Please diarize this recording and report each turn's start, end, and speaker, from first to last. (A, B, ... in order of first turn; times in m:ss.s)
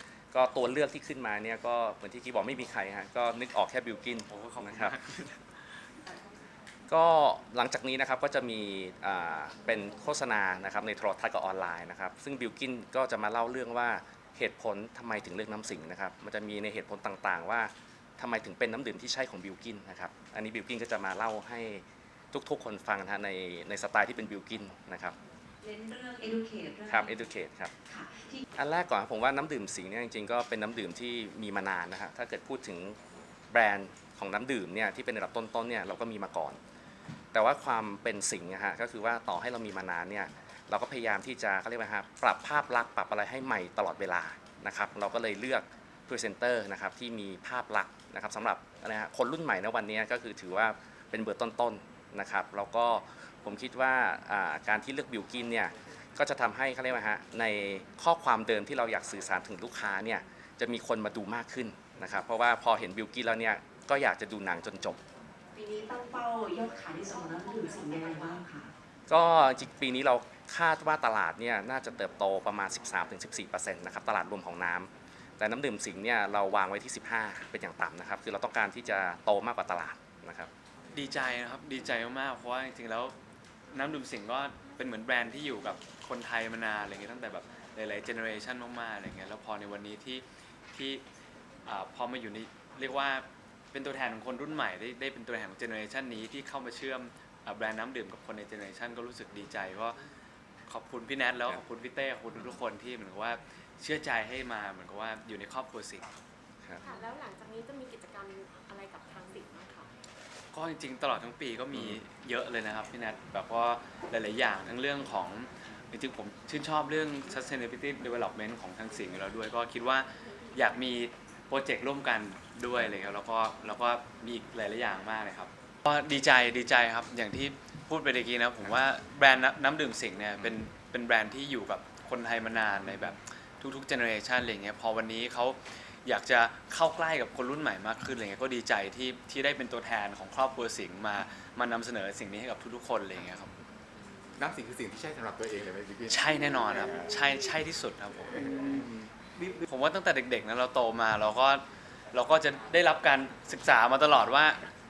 0:00.3-0:05.0 A
0:04.3-0:05.4 B
0:06.9-0:25.1 A
0:25.6-0:27.1 C
0:26.9-0:27.7 A
0:27.9-0:28.4 C
0:28.5-0:33.0 A
0:33.5-0:36.6 A
0:37.3-1:05.0 A
1:05.6-1:08.7 C
1:09.1-1:20.5 A
1:20.9-1:23.2 B
1:23.7-1:31.0 B
1:31.6-1:40.0 B
1:40.7-1:46.1 B
1:46.8-1:49.9 D
1:50.5-2:23.5 B
1:51.7-1:52.0 A
2:24.4-2:26.3 E
2:26.1-2:28.7 B
2:28.6-2:29.1 E
2:29.6-2:34.6 B